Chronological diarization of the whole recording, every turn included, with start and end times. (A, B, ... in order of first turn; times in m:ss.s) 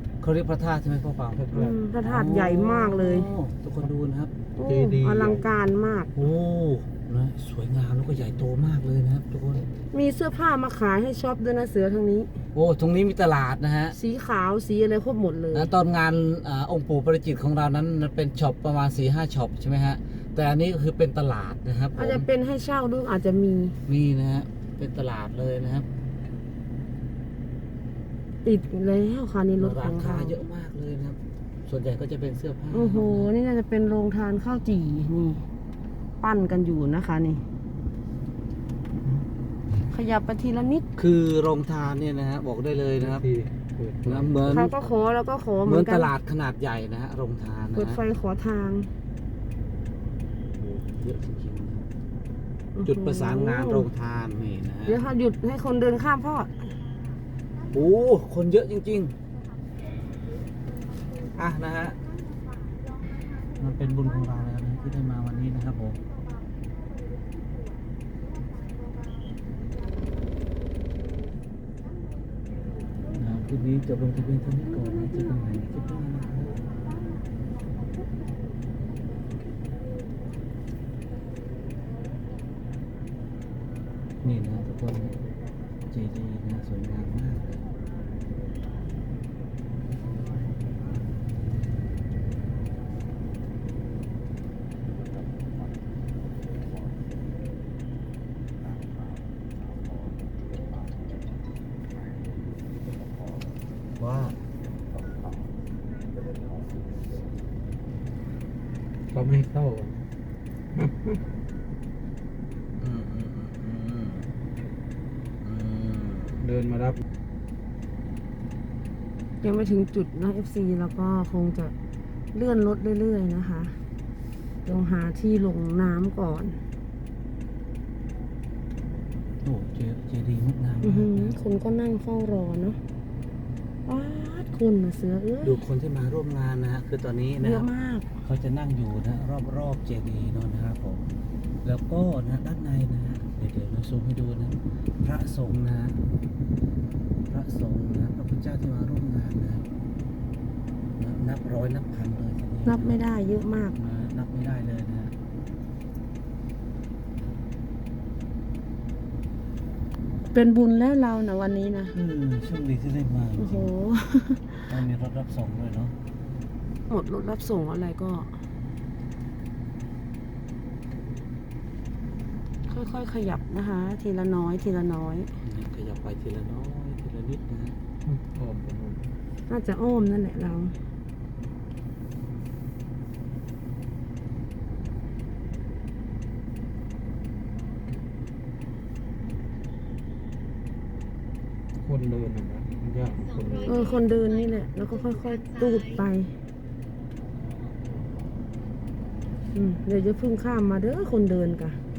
0:00.2-0:04.3 A
0:01.5-0:01.7 B
0:01.5-0:03.3 C
0:04.6-0:06.1 C
0:04.7-0:05.4 B
0:06.2-0:09.7 A
0:09.9-0:12.3 C
0:12.5-0:14.0 A
0:13.9-0:15.7 C
0:15.5-0:22.3 A
0:22.0-0:23.8 C
0:23.9-0:25.9 A
0:28.4-0:30.4 C
0:29.6-0:33.3 A
0:32.7-0:35.4 C
0:36.2-0:37.4 C
0:39.9-0:40.9 C
0:41.0-0:43.3 A
0:43.2-0:44.6 B
0:44.0-0:44.9 A
0:44.5-0:46.1 C
0:45.6-0:48.0 A
0:47.8-0:48.9 C
0:50.6-0:51.9 A
0:52.8-0:53.9 C
0:52.9-0:55.0 A
0:54.9-0:56.7 C
0:57.7-0:59.1 A
1:01.3-1:02.0 A
1:03.5-1:06.0 A
1:13.1-1:16.7 A
1:24.2-1:25.2 A
1:25.9-1:27.6 A
1:44.0-1:44.4 A
1:49.1-1:49.9 B
1:52.8-1:54.3 A
1:55.4-1:56.5 A
1:56.5-1:57.0 B
1:59.4-2:01.7 C
2:02.3-2:03.8 C
2:04.6-2:06.6 C
2:09.4-2:11.4 A
2:10.8-2:12.8 C
2:13.9-2:15.6 C
2:15.4-2:17.7 A
2:17.4-2:18.1 C
2:18.2-2:21.0 A
2:21.6-2:26.0 A
2:27.3-2:29.6 A
2:31.0-2:33.0 A
2:32.6-2:33.8 C
2:33.8-2:35.1 A
2:40.3-2:42.0 C
2:41.9-2:43.7 A
2:43.4-2:44.6 C
2:44.6-2:45.9 A
2:46.9-2:48.3 C
2:52.7-2:55.3 C
2:55.4-2:57.8 A
2:58.1-2:59.0 B
2:59.5-3:00.7 C
3:11.8-3:13.8 B
3:13.6-3:16.3 C
3:19.5-3:21.8 C